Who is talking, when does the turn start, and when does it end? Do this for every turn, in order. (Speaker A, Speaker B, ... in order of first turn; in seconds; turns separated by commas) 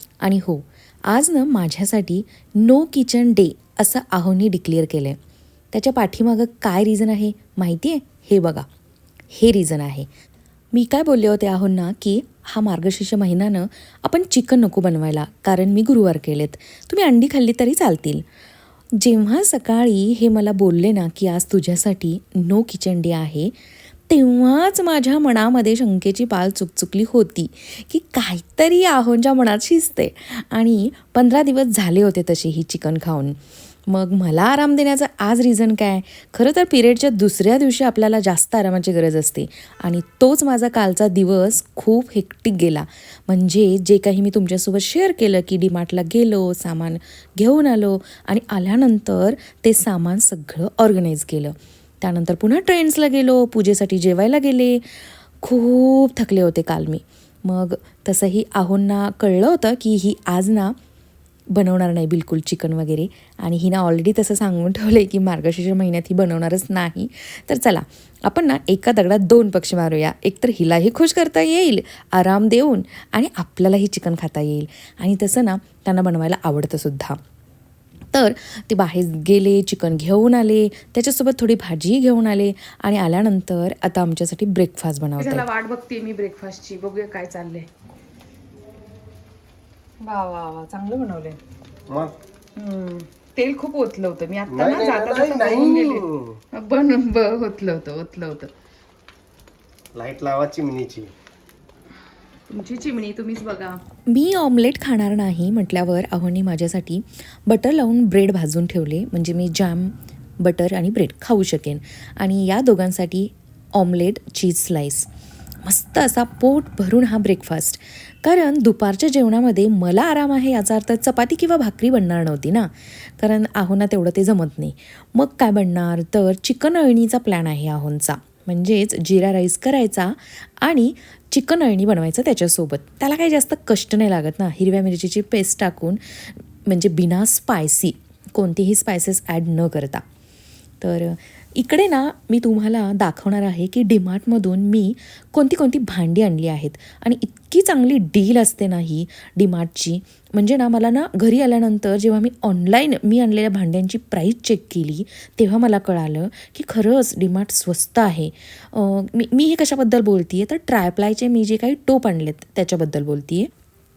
Speaker A: 0.2-5.2, Speaker A: 5.7-8.7, Speaker A: 9.3-10.1, Speaker A: 10.7-18.2, Speaker A: 19.0-23.5, Speaker A: 24.1-60.8, Speaker A: 61.5-77.2, Speaker A: 78.1-85.5, Speaker B: 85.2-87.7, Speaker B: 90.0-91.4, Speaker C: 91.9-92.2, Speaker B: 92.6-98.5, Speaker C: 94.5-96.4, Speaker C: 99.9-101.1, Speaker B: 102.5-103.8, Speaker A: 104.1-115.1, Speaker A: 115.7-140.0, Speaker A: 140.8-163.5